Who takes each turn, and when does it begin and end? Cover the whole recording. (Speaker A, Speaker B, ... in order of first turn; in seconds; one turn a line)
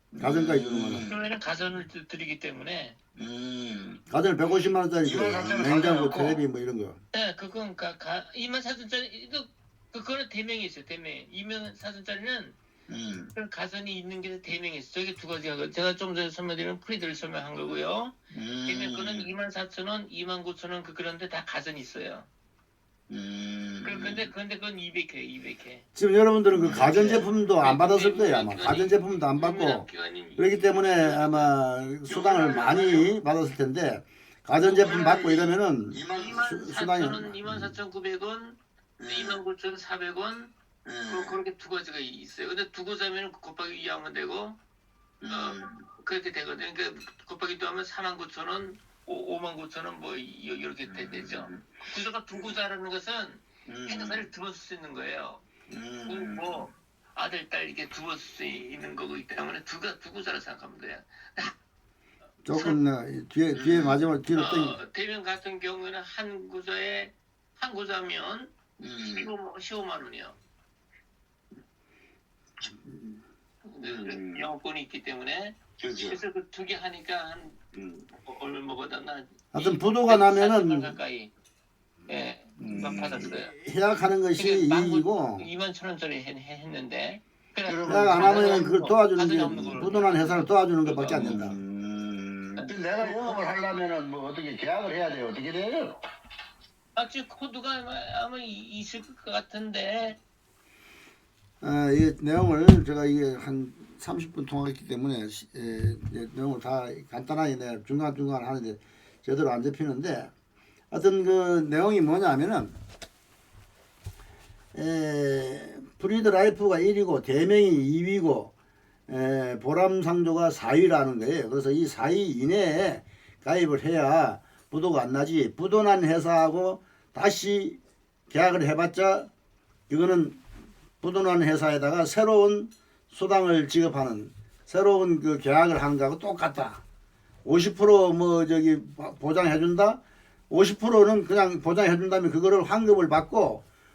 Speaker A: 0.1-1.2
Speaker B: 0.2-1.1
Speaker C: 1.0-3.0
Speaker A: 3.1-4.0
Speaker B: 4.1-7.0
Speaker A: 5.0-6.4
Speaker C: 7.1-12.6
Speaker A: 12.9-13.3
Speaker C: 13.3-22.3
Speaker A: 18.3-19.3
Speaker A: 23.1-24.3
Speaker C: 23.8-25.8
Speaker B: 25.9-37.7
Speaker A: 26.5-27.3
Speaker C: 27.6-31.5
Speaker C: 32.1-33.1
Speaker A: 32.1-32.9
Speaker C: 34.6-35.3
Speaker A: 34.8-36.5
Speaker C: 36.1-40.5
Speaker A: 39.0-39.4
Speaker A: 40.8-41.4
Speaker C: 41.1-44.6
Speaker A: 45.2-45.9
Speaker C: 45.2-55.4
Speaker A: 50.9-51.8
Speaker A: 53.7-54.3
Speaker A: 55.7-56.7
Speaker C: 56.0-61.5
Speaker B: 62.4-64.8
Speaker C: 62.5-62.8
Speaker A: 63.5-64.0
Speaker C: 64.3-70.4
Speaker A: 68.8-69.3
Speaker C: 73.7-77.6
Speaker A: 73.8-74.5
Speaker A: 75.8-76.2
Speaker A: 77.7-78.1
Speaker C: 78.1-81.3
Speaker B: 79.5-80.9
Speaker C: 82.1-83.5
Speaker A: 82.6-83.3
Speaker B: 82.8-85.5
Speaker C: 84.3-91.5
Speaker A: 87.6-88.9
Speaker B: 87.8-91.6
Speaker A: 91.1-96.0
Speaker C: 92.5-93.4
Speaker C: 97.0-100.2
Speaker B: 101.6-110.3
Speaker B: 110.9-112.8
Speaker B: 114.7-118.5
Speaker B: 119.1-129.3
Speaker B: 129.9-130.4
Speaker B: 131.0-136.8
Speaker B: 137.4-143.6